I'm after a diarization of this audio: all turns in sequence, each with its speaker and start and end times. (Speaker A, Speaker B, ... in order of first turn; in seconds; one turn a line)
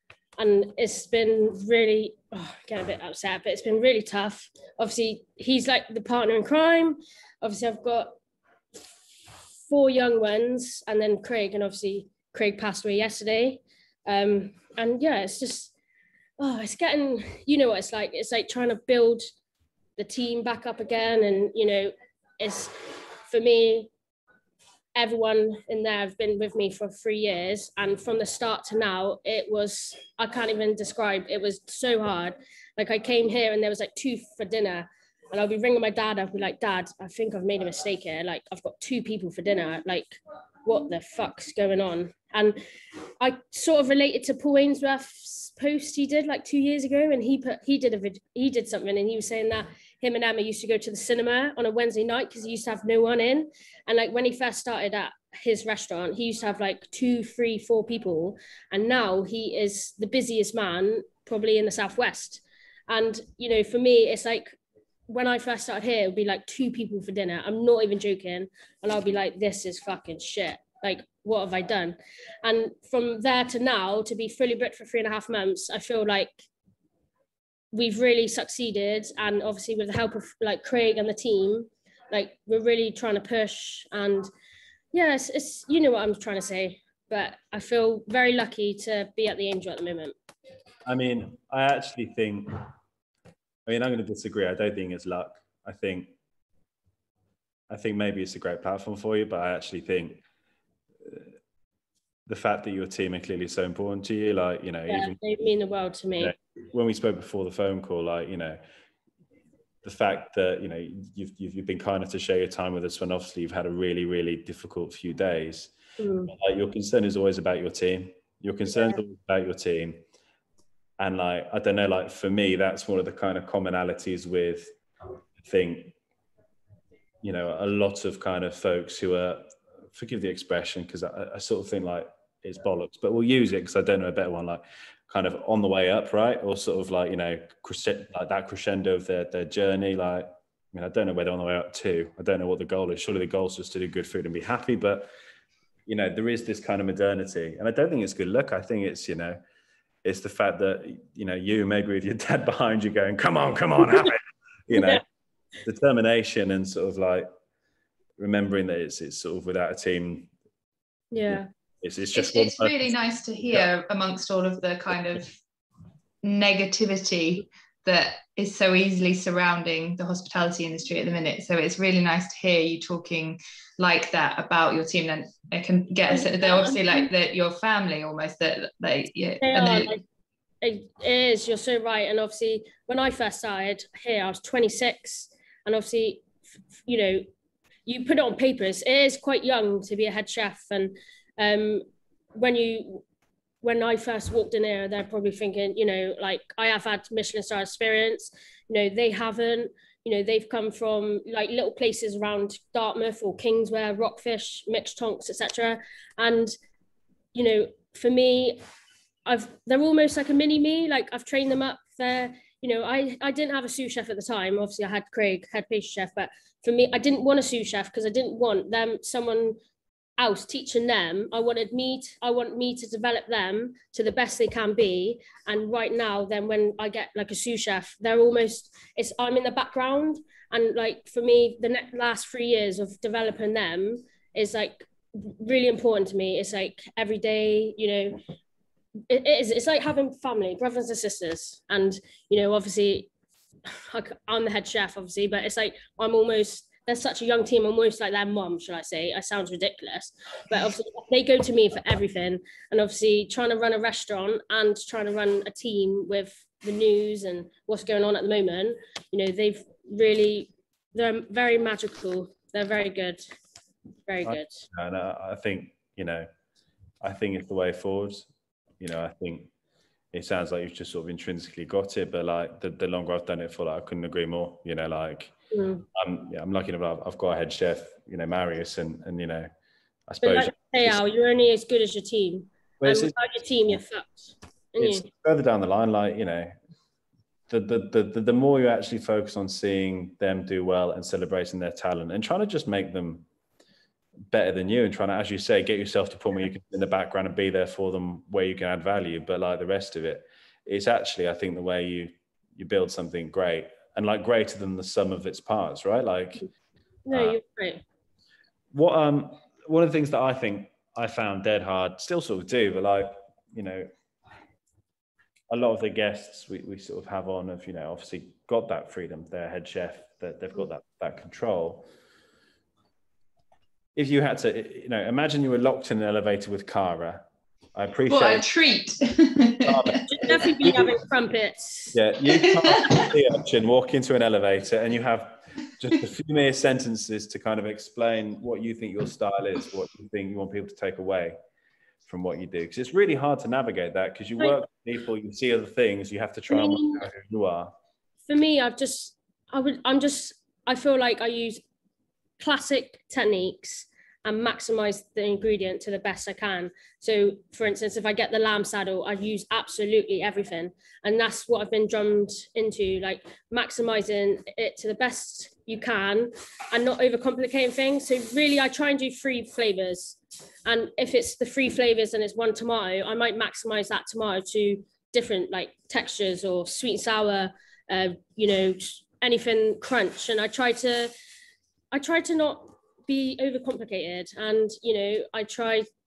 Speaker A: 0.4-8.1
Speaker A: 9.7-15.7
Speaker A: 16.4-19.2
Speaker A: 20.0-22.7
Speaker A: 23.3-23.9
Speaker A: 24.9-42.6
Speaker A: 43.2-64.5
Speaker A: 65.1-76.5
Speaker A: 77.7-84.3
Speaker A: 84.9-90.1
Speaker B: 90.8-92.6
Speaker B: 93.7-96.1
Speaker B: 97.7-100.2
Speaker B: 102.3-105.2
Speaker A: 104.9-106.3
Speaker B: 106.2-108.6
Speaker B: 109.8-115.7
Speaker A: 116.0-116.3
Speaker B: 116.3-120.0
Speaker B: 121.0-124.7
Speaker B: 125.4-125.9
Speaker B: 127.2-145.1
Speaker B: 145.9-149.4
Speaker B: 150.0-155.0
Speaker A: 154.7-155.0
Speaker B: 155.6-157.3
Speaker B: 158.2-160.3
Speaker A: 161.1-161.5
Speaker B: 161.3-162.9
Speaker C: 162.1-165.3
Speaker C: 166.2-179.9
Speaker A: 176.1-177.1
Speaker A: 179.4-180.0
Speaker A: 180.6-186.2
Speaker A: 186.8-187.2
Speaker A: 187.8-191.8
Speaker A: 192.3-193.0
Speaker A: 193.6-206.5
Speaker A: 207.3-208.6
Speaker A: 209.2-219.6
Speaker A: 220.2-238.2
Speaker A: 239.1-243.1
Speaker A: 243.7-263.2
Speaker A: 264.1-264.6
Speaker B: 264.2-266.3
Speaker B: 267.0-268.3
Speaker B: 268.8-269.5
Speaker B: 270.1-275.3
Speaker A: 275.5-275.8
Speaker B: 275.9-279.5
Speaker B: 280.1-281.0
Speaker A: 280.2-285.0
Speaker B: 282.8-283.8
Speaker B: 284.8-286.6
Speaker B: 287.5-293.2
Speaker B: 294.3-306.5
Speaker A: 307.1-307.8
Speaker B: 307.1-307.4
Speaker B: 308.7-313.9
Speaker B: 315.5-321.9
Speaker B: 323.9-328.4
Speaker C: 328.1-330.0
Speaker B: 329.6-330.9
Speaker A: 330.1-331.9
Speaker B: 331.9-341.4
Speaker C: 332.5-333.1
Speaker B: 342.1-347.7
Speaker A: 346.5-347.0
Speaker A: 348.3-351.6
Speaker A: 352.4-381.1
Speaker A: 381.9-385.9